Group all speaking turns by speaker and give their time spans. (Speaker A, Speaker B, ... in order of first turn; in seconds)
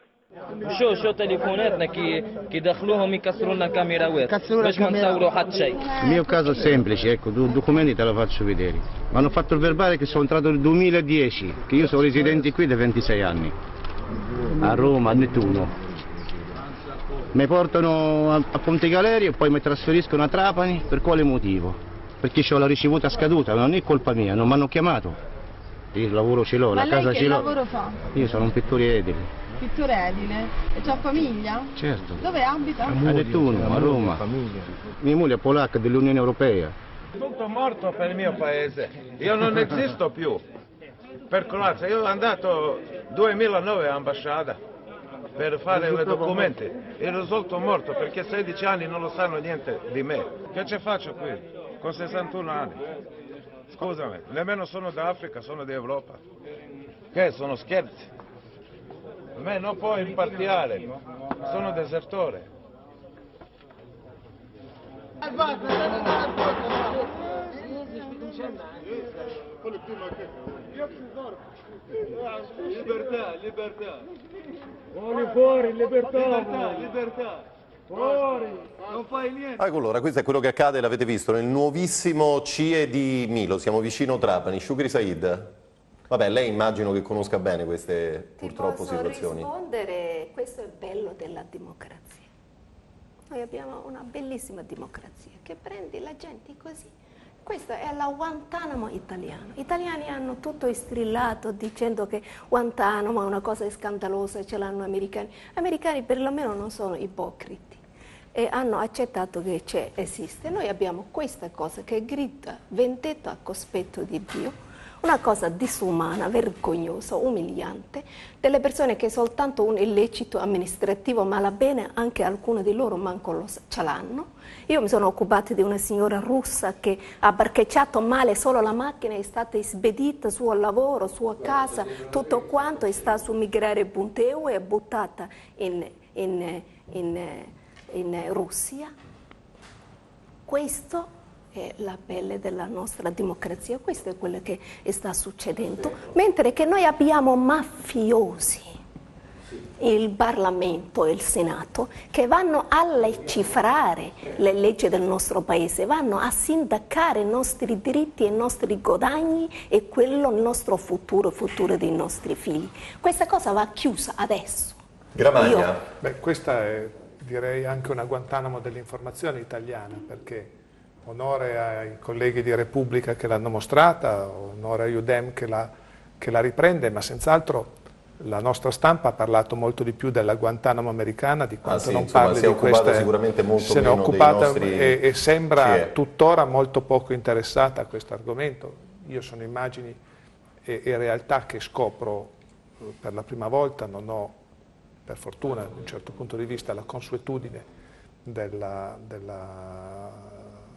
Speaker A: 0.6-5.8
Speaker B: 4.3-6.8, 26.7-28.1, 29.6-33.1
Speaker C: 6.0-13.6, 14.6-15.8, 17.3-25.2, 25.9-27.5, 28.1-29.3, 31.8-32.2, 33.0-36.8
Speaker D: 37.1-40.4, 41.3-44.6, 45.4-52.9, 53.7-56.2, 57.1-58.1, 59.4-62.5, 72.7-73.9, 75.9-77.3, 78.9-79.5
Speaker E: 79.6-85.5, 86.1-89.5, 165.2-165.8, 181.6-185.0, 185.6-185.9
Speaker F: 88.4-92.3, 93.3-96.9, 97.5-107.8, 108.3-138.9, 140.5-148.8, 149.8-164.8, 165.4-165.7
Speaker G: 166.0-190.0, 190.7-192.3, 192.9-194.4, 195.1-197.7, 198.2-200.4